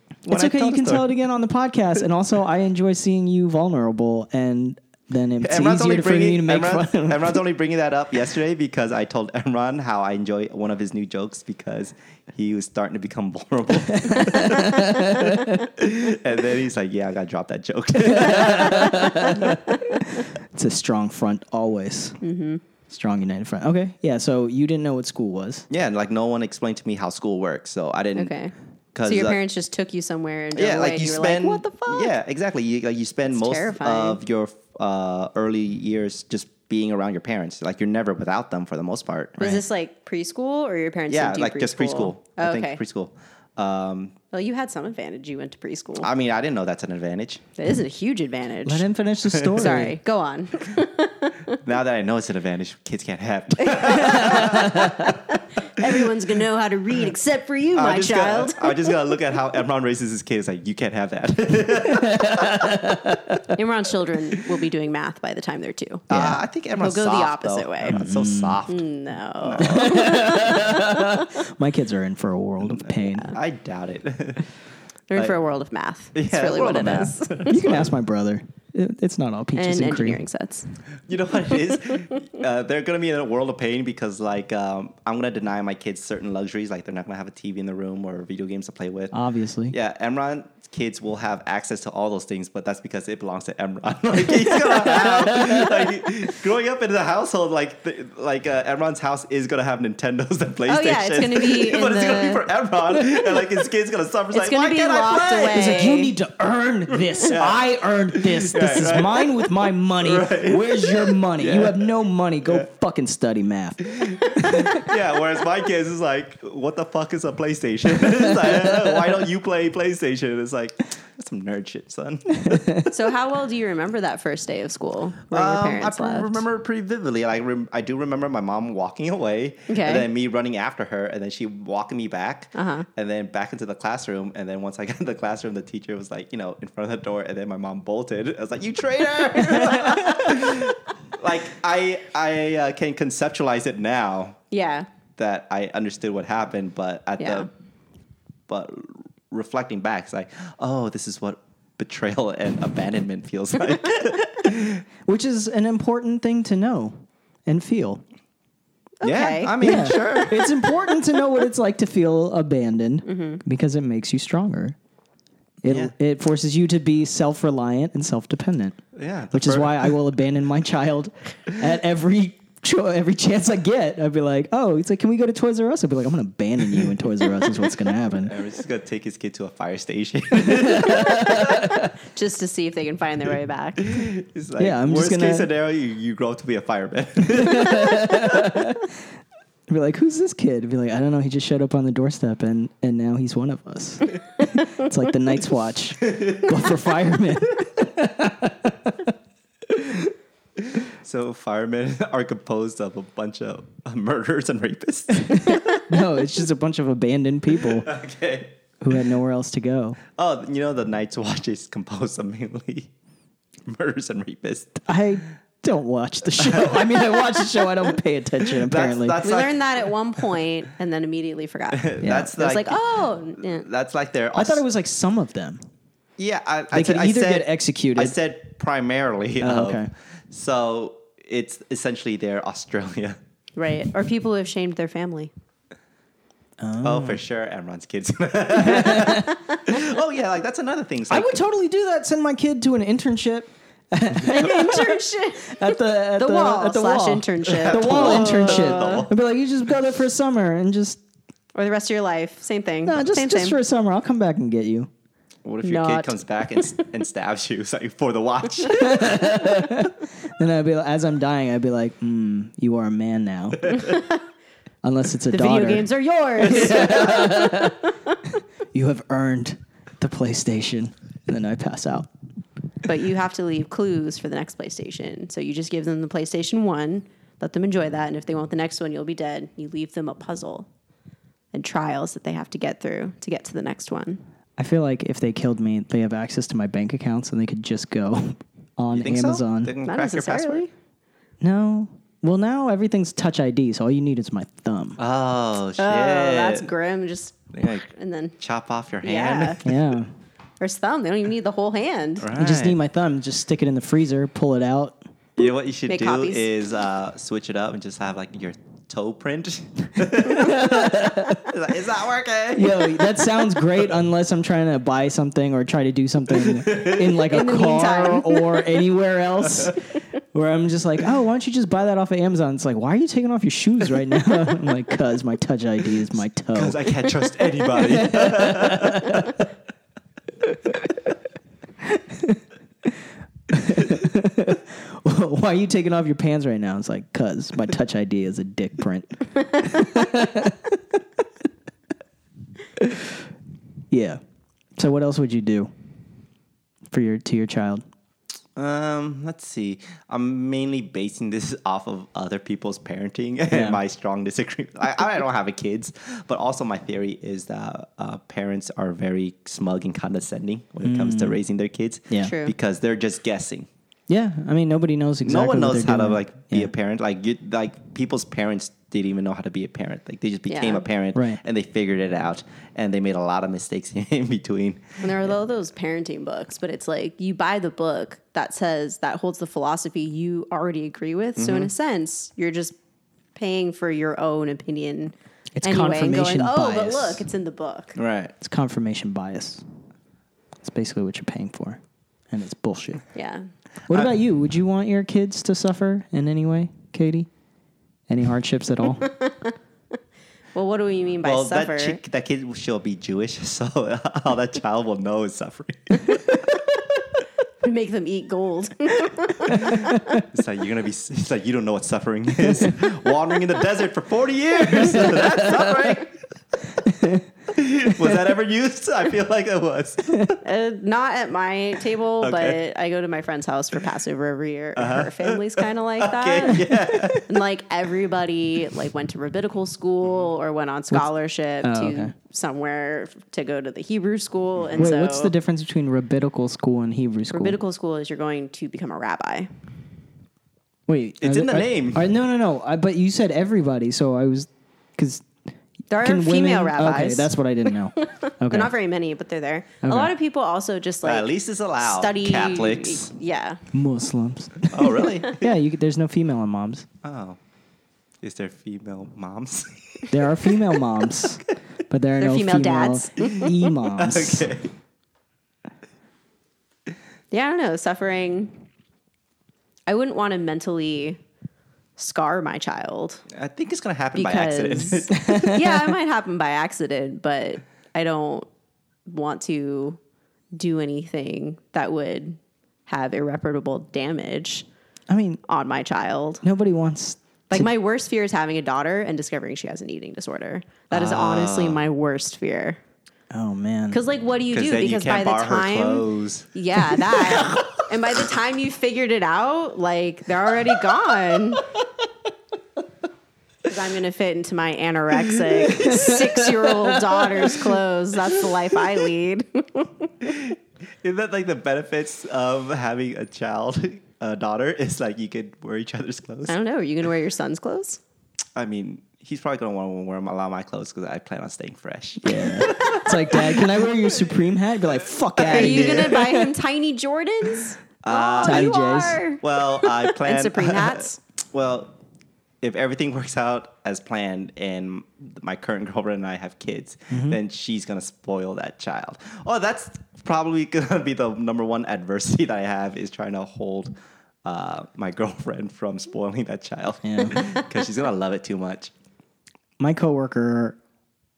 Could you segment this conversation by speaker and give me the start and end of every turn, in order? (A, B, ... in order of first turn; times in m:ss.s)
0:00.2-0:01.1 A
0:00.3-0:07.4 B
0:05.4-0:19.5 A
0:13.9-0:15.6 B
0:18.0-0:22.2 B
0:22.2-0:22.6 C
0:22.9-0:25.7 B
0:25.7-0:28.3 A
0:28.2-0:28.5 C
0:28.9-0:29.4 A
0:29.1-0:32.1 C
0:30.5-0:39.6 A
0:33.3-0:34.2 C
0:39.4-0:42.8 C
0:41.1-0:44.2 A
0:44.3-0:46.1 C
0:46.0-0:47.4 A
0:47.6-0:48.9 C
0:48.6-0:50.0 B
0:49.5-0:49.8 A
0:49.6-0:51.6 C
0:51.6-0:55.1 A
0:53.6-0:59.0 C
0:55.8-0:56.1 A
0:57.7-1:03.2 A
1:01.9-1:03.5 B
1:03.5-1:06.0 C
1:06.1-1:08.8 A
1:06.1-1:06.4 B
1:06.8-1:08.0 C
1:07.9-1:08.6 B
1:08.7-1:11.2 C
1:09.4-1:10.3 A
1:09.6-1:13.3 B
1:12.7-1:14.4 A
1:13.0-1:13.4 C
1:15.1-1:17.6 C
1:16.1-1:17.9 A
1:17.5-1:20.2 B
1:19.6-1:20.7 C
1:21.1-1:29.1 A
1:21.5-1:22.0 C
1:29.1-1:29.8 B
1:29.7-1:45.7 A
1:35.2-1:35.7 B
1:40.7-1:42.4 C
1:44.3-1:46.1 C
1:45.5-1:54.9 B
1:47.1-1:51.9 A
1:54.0-2:03.1 A
1:58.1-1:58.9 B
2:02.3-2:02.9 B
2:02.9-2:06.4 C
2:05.3-2:24.4 A
2:09.7-2:10.1 C
2:12.6-2:12.9 C
2:24.5-2:24.9 C
2:25.2-2:27.5 A
2:27.2-2:27.5 C
2:28.5-2:34.8 A
2:35.0-2:38.0 B
2:39.0-2:40.5 C
2:39.0-2:40.5 A
2:39.6-2:44.8 B
2:43.0-2:43.4 C
2:45.6-2:48.8 B
2:45.6-2:45.9 A
2:48.9-2:49.9 A
2:49.3-2:58.3 B
2:58.2-3:01.7 A
3:00.6-3:01.7 B
3:01.1-3:04.0 C
3:03.8-3:08.5 A
3:04.6-3:05.5 B
3:07.3-3:08.9 B
3:09.7-3:19.1 B
3:16.1-3:16.5 A
3:20.6-3:25.8 A
3:25.2-3:27.9 B
3:27.6-3:28.6 A
3:28.8-3:30.0 B
3:30.2-3:32.9 A
3:33.6-3:34.8 A
3:34.8-3:39.2 B
3:36.4-3:37.0 A
3:38.4-3:39.8 A
3:39.2-3:43.6 C
3:41.7-3:44.6 A
3:42.0-3:42.3 B
3:44.3-3:45.6 B
3:46.2-3:53.2 A
3:46.7-3:48.2 B
3:49.4-3:49.9 B
3:53.6-3:55.3 C
3:56.6-3:57.2 B
3:56.8-4:01.4 A
3:58.6-3:59.3 B
4:01.1-4:11.0 B
4:04.3-4:09.1 C
4:07.4-4:09.1 A
4:11.5-4:13.6 C
4:12.8-4:14.9 B
4:15.4-4:19.4 A
4:15.6-4:16.7 C
4:18.7-4:23.8 B
4:23.8-4:24.0 C
4:24.8-4:25.9 B
4:25.3-4:27.8 C
4:26.4-4:27.8 B
4:26.7-4:27.0 A
4:28.7-4:32.1 B
4:32.8-4:40.7 C
4:41.5-4:44.2 C
4:44.6-4:49.7 B
4:48.9-4:50.6 A
4:49.8-4:50.7 C
4:51.4-4:55.0 B
4:55.0-4:56.7 A
4:55.8-4:58.4 C
4:57.5-4:57.9 A
4:58.4-4:59.6 A
4:59.0-4:59.6 C
4:59.6-5:00.1 B
5:00.6-5:02.3 C
5:02.2-5:02.8 A
5:02.3-5:05.0 B
5:05.4-5:13.2 A
5:05.9-5:06.5 C
5:10.2-5:11.4 B
5:12.5-5:19.8 B
5:16.3-5:17.2 A
5:17.3-5:18.7 C
5:20.3-5:26.9 B
5:26.5-5:29.3 A
5:27.7-5:29.4 B
5:30.5-5:31.0 B
5:31.8-5:33.0 B
5:33.5-5:40.8 B
5:42.7-5:43.2 B
5:43.9-5:44.2 B
5:44.8-5:45.7 B
5:46.9-5:47.8 B
5:48.6-6:03.7 A
5:53.5-5:53.8 B
6:00.8-6:01.4 B
6:02.2-6:02.5 C
6:04.1-6:06.7 B
6:05.2-6:15.3 A
6:10.5-6:10.8 C
6:11.1-6:11.4 B
6:15.0-6:22.7 C
6:21.4-6:21.7 A
6:23.4-6:28.0 C
6:25.6-6:27.2 B
6:28.0-6:28.3 A
6:28.4-6:29.6 B
6:30.6-6:33.0 B
6:33.1-6:33.4 C
6:33.9-6:37.3 B
6:38.1-6:39.1 B
6:39.0-6:39.5 C
6:40.5-6:42.0 C
6:41.2-6:46.8 A
6:47.6-6:50.2 C
6:49.5-6:56.2 A
6:49.7-6:50.2 B
6:54.9-6:55.7 B
6:55.0-6:55.5 C
6:56.8-6:57.2 B
6:57.5-7:00.4 A
6:57.8-6:58.2 B
7:00.4-7:15.3 C
7:02.2-7:02.6 A
7:04.8-7:07.4 A
7:11.6-7:12.1 B
7:14.8-7:17.6 B
7:17.3-7:19.5 C
7:20.9-7:25.3 B
7:21.2-7:22.1 A
7:25.9-7:31.3 C
7:26.0-7:28.7 B
7:29.8-7:30.1 B
7:31.0-7:33.1 A
7:31.8-7:33.6 C
7:33.7-7:36.8 B
7:34.7-7:35.5 A
7:37.0-7:37.4 A
7:38.2-7:40.5 A
7:40.1-7:44.5 B
7:42.2-7:43.5 C
7:43.9-7:44.7 A
7:47.3-7:48.6 C
7:49.9-7:51.2 C
7:52.0-7:53.2 C
7:53.3-7:55.5 A
7:54.2-7:58.5 C
7:55.2-7:55.9 B
7:59.1-8:00.0 C
8:00.5-8:04.6 C
8:05.1-8:05.4 B
8:05.5-8:06.4 C
8:06.4-8:07.7 B
8:07.5-8:12.8 C
8:10.9-8:11.8 A
8:13.3-8:14.0 B
8:13.9-8:21.6 C
8:14.5-8:17.7 A
8:23.6-8:30.3 C
8:25.7-8:27.7 B
8:30.2-8:36.6 A
8:36.5-8:38.0 C
8:38.6-8:44.1 A
8:42.2-8:46.4 B
8:45.4-8:46.3 A
8:45.5-8:51.2 C
8:48.0-8:48.8 A
8:48.4-8:49.2 B
8:49.4-8:51.9 A
8:52.6-9:08.9 A
8:57.1-8:57.4 B
9:07.0-9:07.5 B
9:09.8-9:10.8 B